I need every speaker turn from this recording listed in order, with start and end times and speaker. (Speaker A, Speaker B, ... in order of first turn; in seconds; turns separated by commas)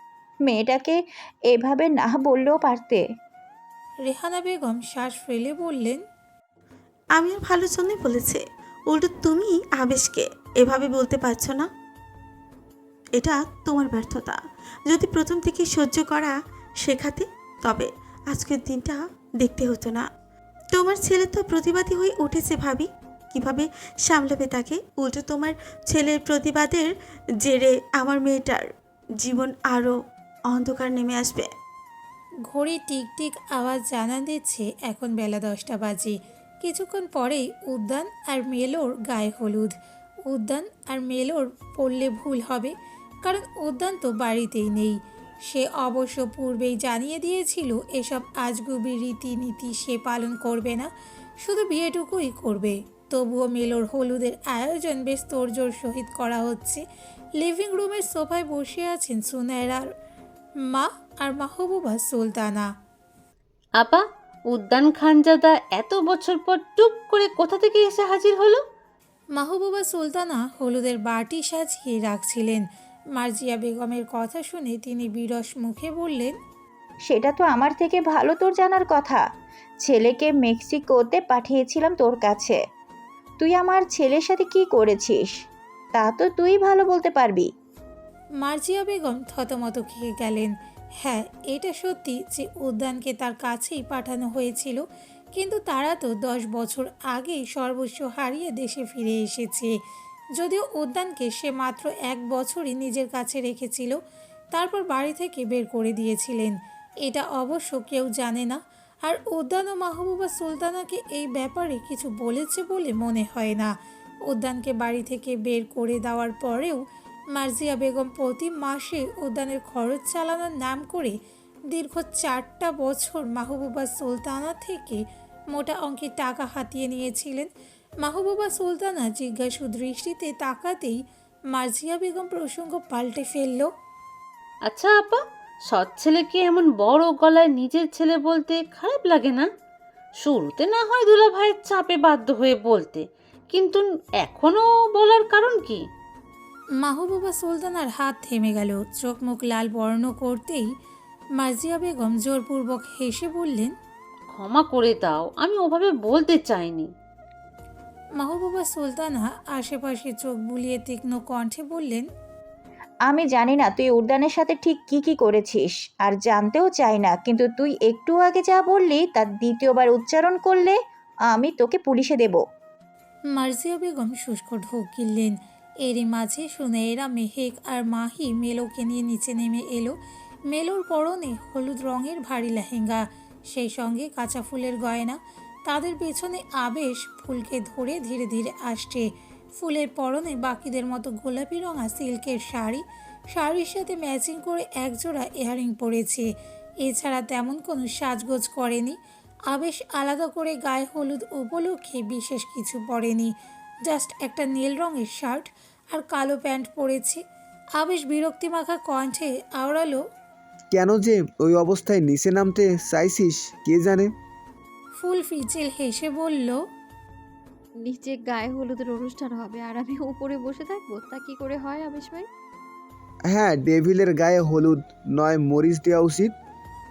Speaker A: 0.5-3.1, Speaker B: 4.1-6.0, Speaker C: 7.2-11.7, Speaker C: 13.2-20.1, Speaker C: 20.7-26.9, Speaker C: 27.4-30.0, Speaker C: 30.5-31.5, Speaker B: 32.5-39.7, Speaker B: 40.3-42.7, Speaker B: 43.3-45.0, Speaker B: 45.5-50.9, Speaker B: 51.4-56.8, Speaker B: 57.4-59.9, Speaker B: 60.7-62.7, Speaker D: 63.8-68.6, Speaker B: 69.4-72.7, Speaker B: 73.2-76.3, Speaker A: 77.1-79.2, Speaker A: 79.8-82.6, Speaker A: 83.4-85.4, Speaker A: 86.0-87.5, Speaker B: 88.4-94.8, Speaker B: 95.3-99.7, Speaker B: 100.4-104.0, Speaker B: 104.5-113.7, Speaker B: 114.3-116.8, Speaker B: 117.3-121.2, Speaker B: 121.7-127.5, Speaker B: 128.0-131.0, Speaker B: 131.5-133.7, Speaker D: 134.7-139.5, Speaker D: 140.2-145.8, Speaker B: 146.8-150.7, Speaker B: 151.4-153.7, Speaker D: 154.3-156.9, Speaker B: 158.2-162.1, Speaker A: 163.1-170.8, Speaker A: 171.3-172.4, Speaker B: 173.4-179.9, Speaker B: 180.5-189.1, Speaker B: 189.6-196.3, Speaker B: 196.8-199.0, Speaker B: 199.5-203.3, Speaker B: 203.9-207.2, Speaker B: 207.8-210.0, Speaker E: 210.7-214.1, Speaker B: 215.0-216.6, Speaker F: 217.8-222.3, Speaker E: 223.3-226.3